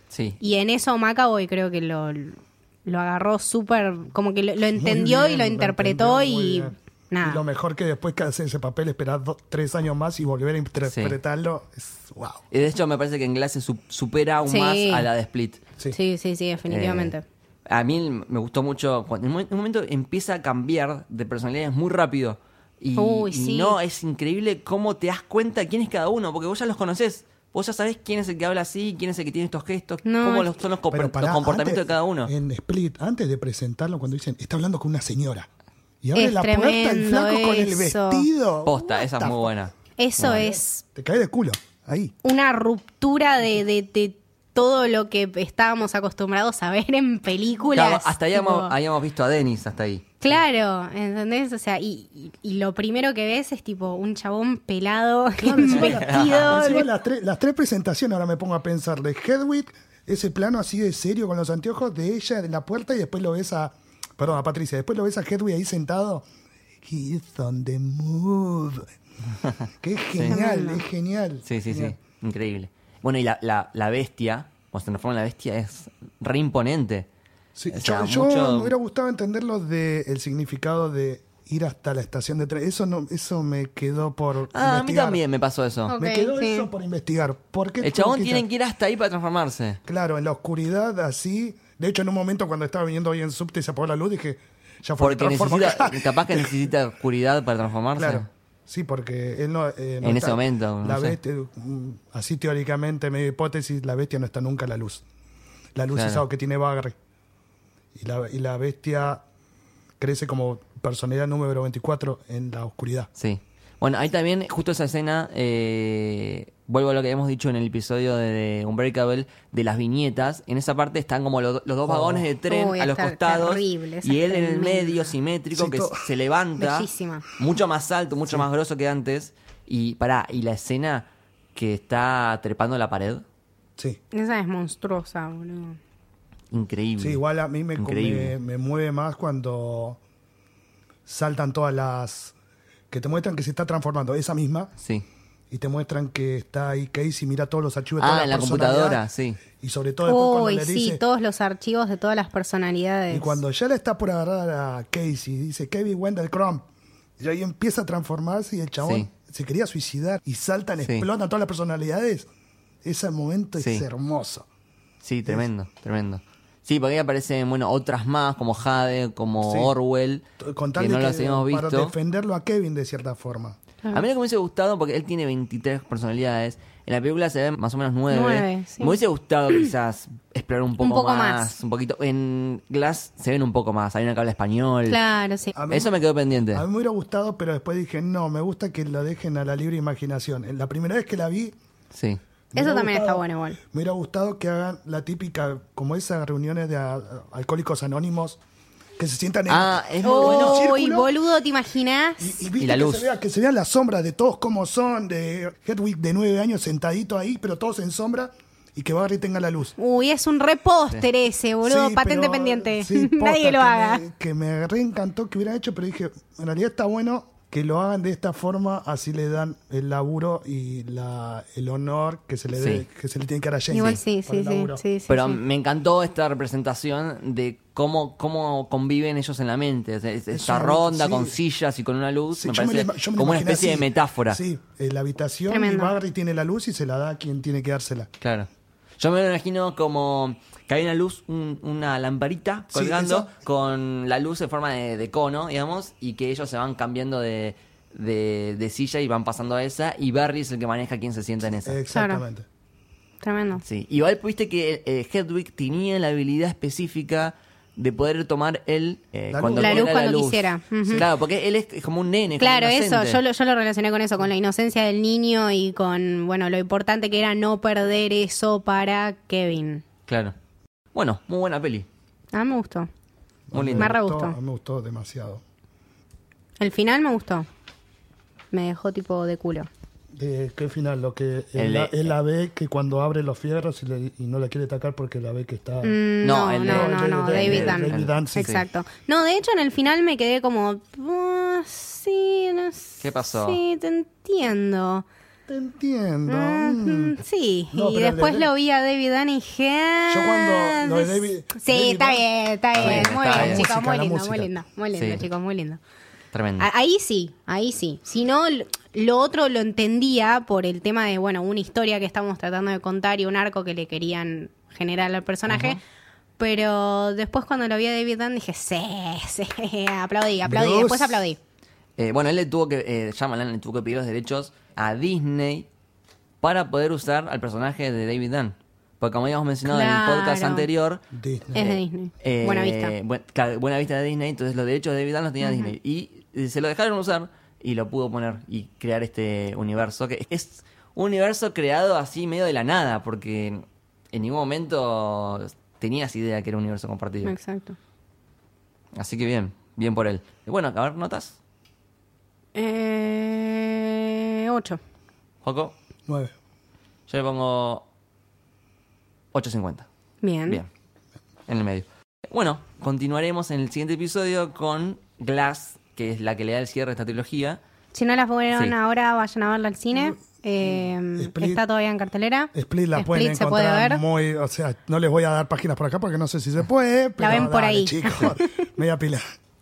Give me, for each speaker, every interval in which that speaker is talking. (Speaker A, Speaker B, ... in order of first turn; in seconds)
Speaker A: 0.1-0.4, 10.8-11.2, 12.5-15.6, 16.7-17.1, 17.7-32.3, 38.6-40.5, 47.7-50.0, 55.7-56.6, 71.4-77.1, 77.7-78.7, 84.5-85.9, 87.8-89.8, 95.0-98.3, 100.0-101.2, 105.9-106.2, 113.2-126.9, 127.4-133.2, 136.5-137.2, 137.8-138.3, 144.8-145.0, 148.0-149.4, 158.8-159.1, 163.6-163.8, 165.0-170.2, 170.8-171.9, 173.9-185.0, 185.7-186.7, 191.9-192.2, 199.5-200.6, 202.6-203.1, 222.5-222.8, 225.1-234.4, 238.2-238.5, 239.0-251.8, 253.6-263.2, 270.1-270.3, 270.9-271.9, 273.5-273.9, 281.5-282.1, 286.2-288.6, 293.0-293.6, 302.8-303.6, 304.9-305.2, 306.3-306.7, 315.5-315.8, 322.0-325.7, 326.4-331.0, 331.5-347.3, 348.9-351.4, 355.4-355.7, 357.1-357.9, 359.3-359.9, 361.5-367.6
Speaker B: 0.4-7.4, 14.4-15.1, 15.9-17.2, 22.9-23.8, 30.0-30.5, 36.1-38.3, 40.0-40.8, 42.2-48.7, 50.2-56.9, 70.3-70.8, 85.9-86.7, 122.5-125.1, 126.6-127.2, 134.1-135.8, 150.0-153.4, 178.1-179.0, 180.8-181.5, 184.9-185.5, 192.6-193.6, 200.0-202.4, 209.8-214.0, 223.7-225.4, 235.5-235.9, 251.9-252.2, 253.2-253.6, 259.6-261.1, 262.4-269.8, 272.3-272.9, 273.8-274.4, 276.6-277.5, 278.5-279.7, 285.8-295.1, 296.3-305.8, 306.6-315.8, 316.4-321.4, 329.6-330.7, 331.5-332.9, 335.4-335.7, 347.2-347.8, 352.5-354.8, 360.2-360.6, 367.9-374.0, 377.2-378.6
Speaker C: 4.7-12.4, 30.9-35.5, 36.0-39.5, 40.2-42.1, 55.4-66.2, 66.8-68.9, 69.8-72.0, 77.5-85.2, 86.0-88.4, 89.8-96.5, 98.0-105.0, 105.8-107.0, 108.0-109.2, 110.0-113.1, 121.9-122.2, 125.5-126.0, 137.0-140.0, 141.1-142.3, 142.9-144.7, 145.5-149.0, 149.6-151.0, 153.1-156.6, 157.2-162.3, 162.8-164.4, 169.4-169.7, 170.4-173.6, 185.5-185.9, 186.5-191.5, 192.5-198.4, 199.0-201.2, 202.2-209.7, 211.6-224.8, 230.3-231.4, 232.3-238.1, 242.7-243.3, 251.6-252.4, 259.3-259.9, 273.5-275.4, 280.1-286.0, 286.6-288.5, 295.5-297.2, 297.7-298.5, 300.1-304.5, 320.4-321.2, 331.1-331.7, 356.1-356.3, 371.2-371.6, 372.5-379.2